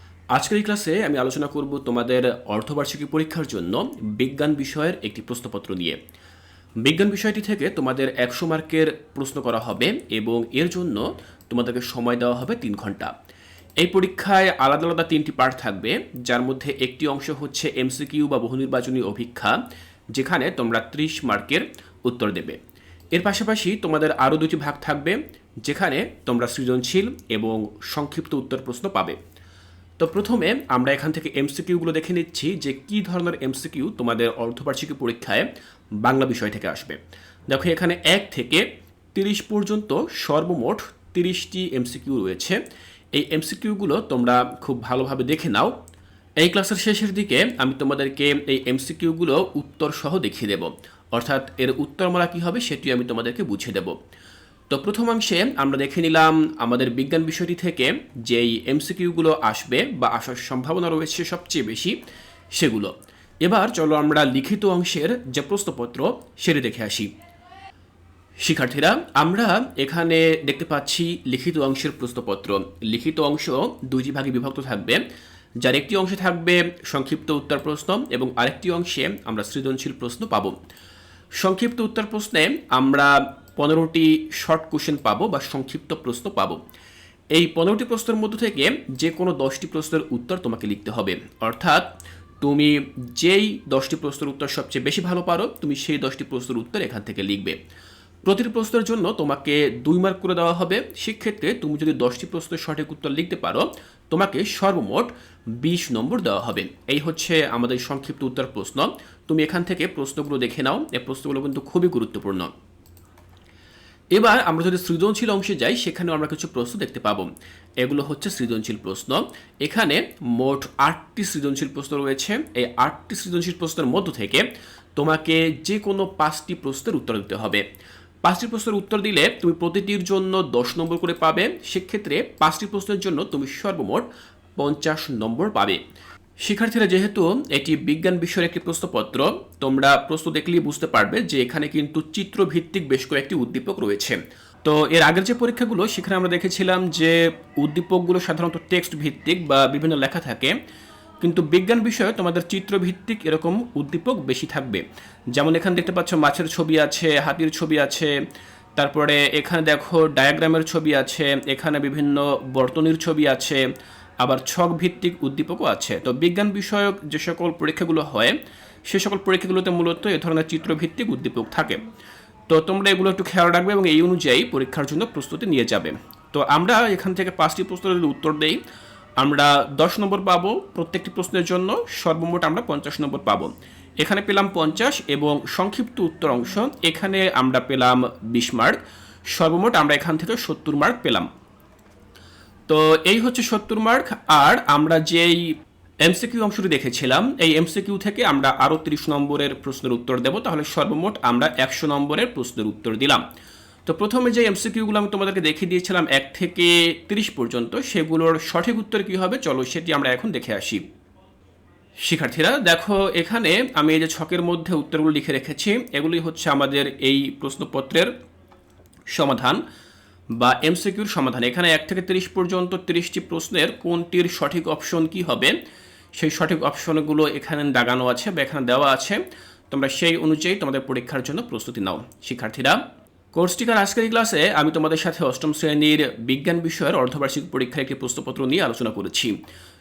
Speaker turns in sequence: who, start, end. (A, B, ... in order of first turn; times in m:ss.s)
0:00.3-0:06.0 A
0:06.8-0:13.1 A
0:13.8-0:19.6 A
0:20.1-0:22.6 A
0:23.1-0:29.2 A
0:30.0-0:35.5 A
0:36.0-0:37.0 A
0:37.5-0:38.6 A
0:39.1-0:42.6 A
0:43.1-0:45.7 A
0:46.4-0:54.0 A
0:54.7-1:02.0 A
1:02.5-1:07.1 A
1:08.4-1:15.0 A
1:15.6-1:20.5 A
1:21.4-1:26.6 A
1:27.3-1:31.9 A
1:32.4-1:37.6 A
1:38.2-1:52.5 A
1:54.1-1:57.3 A
1:57.8-2:07.6 A
2:08.2-2:15.8 A
2:16.4-2:30.5 A
2:31.2-2:38.1 A
2:38.8-2:43.6 A
2:44.2-2:48.3 A
2:48.9-2:51.8 A
2:52.5-2:58.6 A
2:59.2-3:08.8 A
3:09.3-3:11.3 A
3:12.7-3:23.2 A
3:23.8-3:30.8 A
3:32.0-3:38.1 A
3:39.1-3:39.6 A
3:40.3-3:45.6 A
3:46.1-3:52.8 A
3:53.3-3:59.4 A